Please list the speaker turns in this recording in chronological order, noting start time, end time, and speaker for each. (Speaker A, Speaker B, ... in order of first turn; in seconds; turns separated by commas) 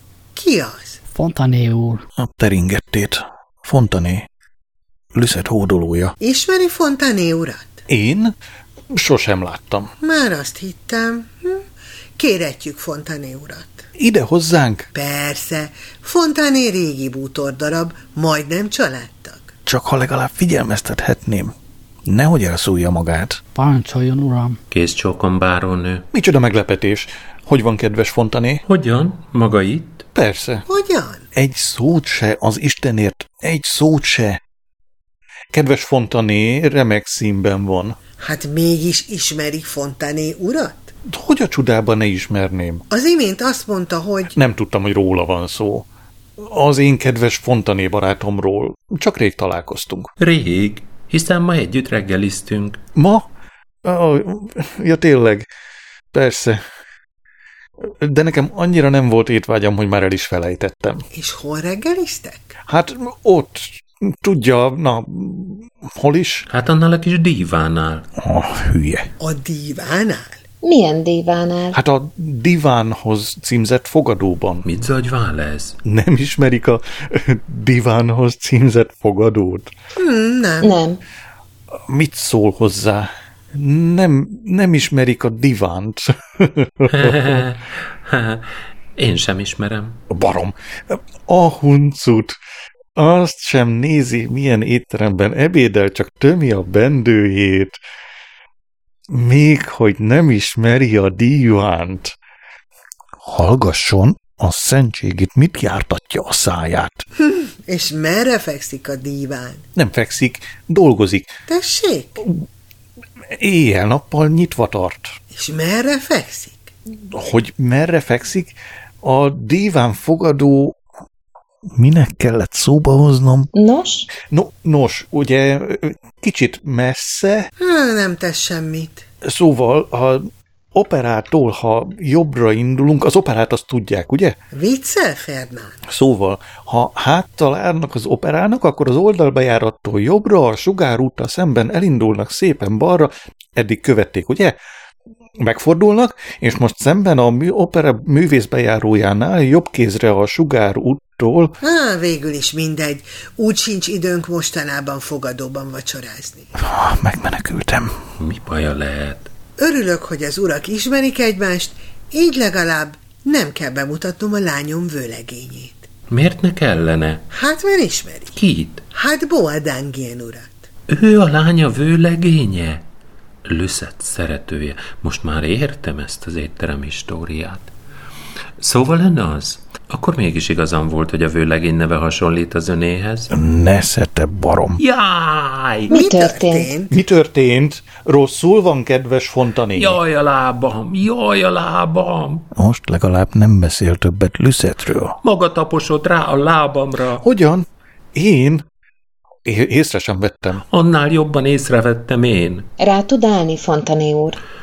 Speaker A: 0.3-1.0, Speaker B: 1.1-2.0, Speaker C: 2.2-4.2, Speaker C: 5.1-6.1, Speaker A: 6.2-7.8, Speaker C: 7.9-8.3, Speaker C: 8.9-9.9, Speaker A: 10.0-11.6, Speaker A: 12.2-13.8, Speaker C: 14.0-14.9, Speaker A: 14.9-19.5, Speaker C: 19.6-21.5, Speaker C: 22.1-23.4, Speaker B: 23.5-24.6, Speaker D: 24.7-26.1, Speaker C: 26.1-28.6, Speaker D: 28.7-30.0, Speaker C: 30.1-30.6, Speaker A: 30.7-31.2, Speaker C: 31.3-34.4, Speaker C: 35.5-38.0, Speaker A: 38.2-40.9, Speaker C: 41.1-42.8, Speaker A: 42.9-44.3, Speaker C: 44.3-45.9, Speaker C: 46.4-50.1, Speaker D: 50.2-52.8, Speaker C: 53.0-53.2, Speaker C: 53.8-55.5, Speaker C: 56.1-56.6, Speaker C: 57.9-61.0, Speaker A: 61.1-62.5, Speaker C: 62.7-66.4, Speaker D: 66.5-68.1, Speaker C: 68.2-69.1, Speaker A: 69.2-70.4, Speaker E: 70.6-71.8, Speaker C: 71.7-74.6, Speaker D: 74.6-75.8, Speaker C: 75.8-79.7, Speaker A: 80.0-80.7, Speaker E: 80.6-81.0, Speaker C: 81.9-87.4, Speaker D: 86.9-90.0, Speaker C: 90.1-92.4, Speaker C: 93.0-97.8, Speaker C: 99.1-102.1, Speaker C: 103.2-107.0, Speaker A: 107.2-109.6, Speaker C: 109.8-111.3, Speaker A: 111.5-112.2, Speaker C: 113.3-115.1, Speaker A: 115.3-116.7, Speaker C: 117.1-118.5, Speaker C: 119.0-120.8, Speaker C: 121.8-123.5, Speaker E: 123.5-124.1, Speaker C: 124.3-127.5, Speaker A: 127.6-129.0, Speaker C: 129.2-134.3, Speaker A: 134.5-135.8, Speaker C: 135.9-144.5, Speaker C: 145.4-151.5, Speaker A: 151.6-156.5, Speaker C: 156.6-157.9, Speaker D: 158.2-159.3, Speaker A: 159.6-165.9, Speaker D: 166.1-167.2, Speaker A: 167.3-168.3, Speaker D: 168.3-168.8, Speaker A: 168.9-170.6, Speaker D: 170.9-172.8, Speaker D: 173.4-177.7, Speaker D: 178.6-183.3, Speaker C: 183.3-184.8, Speaker D: 184.8-185.9, Speaker E: 185.9-186.7, Speaker A: 185.9-186.9, Speaker C: 186.9-190.0, Speaker D: 189.7-192.5, Speaker C: 192.5-195.2, Speaker D: 195.2-197.2, Speaker C: 197.2-198.6, Speaker C: 199.4-200.6, Speaker D: 200.7-202.7, Speaker E: 202.8-204.4